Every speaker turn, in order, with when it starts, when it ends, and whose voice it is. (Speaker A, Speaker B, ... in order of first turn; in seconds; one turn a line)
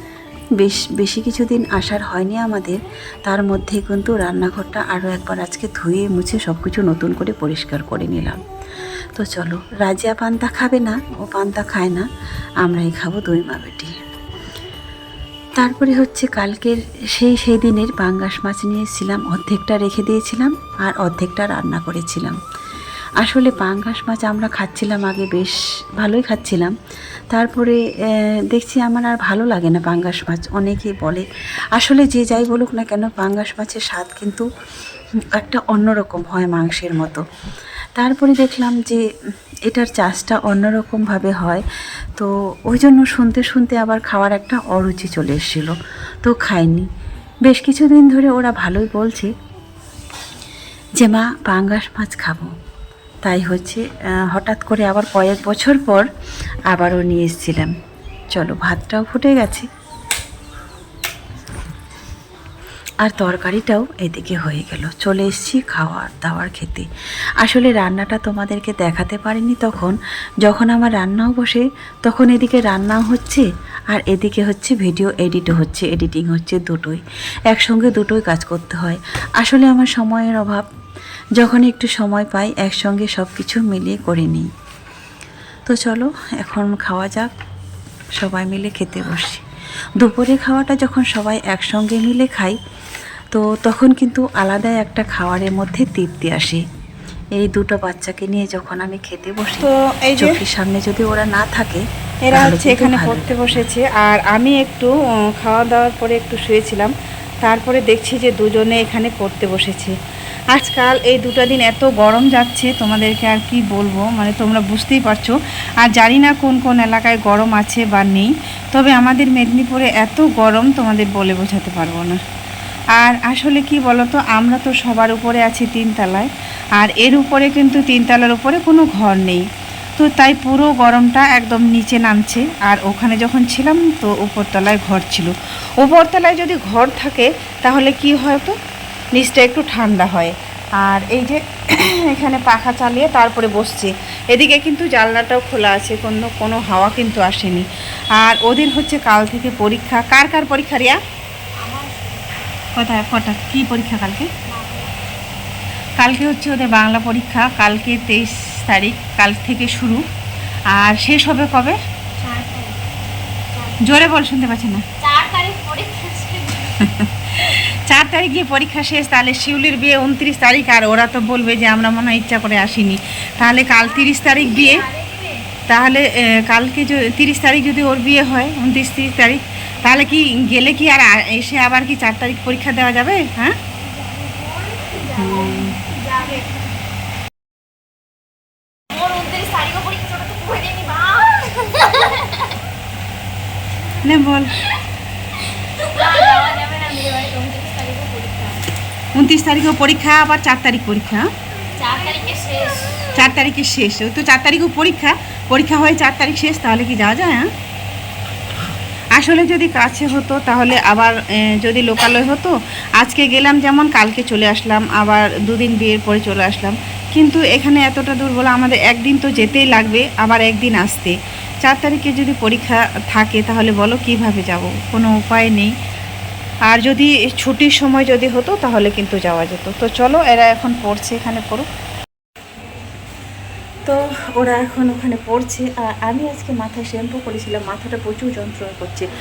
Speaker A: 0.6-8.4
Speaker A: 9.2-12.1
Speaker A: 12.6-13.9
Speaker A: 15.6-22.4
Speaker A: 23.2-26.7
Speaker A: 27.3-34.5
Speaker A: 35.3-37.2
Speaker A: 38.0-39.0
Speaker A: 39.7-41.6
Speaker A: 42.2-46.9
Speaker A: 47.5-49.3
Speaker A: 51.0-52.5
Speaker A: 53.2-56.1
Speaker A: 56.7-57.7
Speaker A: 58.3-59.7
Speaker A: 63.0-66.9
Speaker A: 67.4-77.0
Speaker A: 77.5-80.6
Speaker A: 81.4-84.5
Speaker A: 85.7-87.3
Speaker A: 88.2-89.4
Speaker A: 90.0-92.6
Speaker A: 93.3-96.6
Speaker A: 97.4-103.5
Speaker B: 99.6-100.4
Speaker B: 102.3-106.9
Speaker B: 107.4-109.9
Speaker B: 110.5-122.2
Speaker B: 123.0-129.4
Speaker B: 130.0-138.6
Speaker B: 139.2-147.7
Speaker B: 148.2-151.0
Speaker C: 151.6-152.5
Speaker B: 152.8-154.3
Speaker C: 154.4-154.9
Speaker B: 156.0-160.0
Speaker B: 160.7-161.8
Speaker C: 162.2-162.8
Speaker C: 163.5-163.8
Speaker B: 163.8-164.9
Speaker C: 165.0-166.8
Speaker B: 166.8-174.9
Speaker C: 173.6-175.5
Speaker B: 175.7-183.6
Speaker C: 184.0-186.5
Speaker B: 185.2-185.8
Speaker C: 188.9-192.4
Speaker B: 194.0-194.6
Speaker C: 195.8-198.7
Speaker B: 199.2-201.3
Speaker C: 201.8-203.2
Speaker B: 203.1-207.5
Speaker B: 209.2-225.7
Speaker B: 226.7-231.7
Speaker B: 233.9-239.1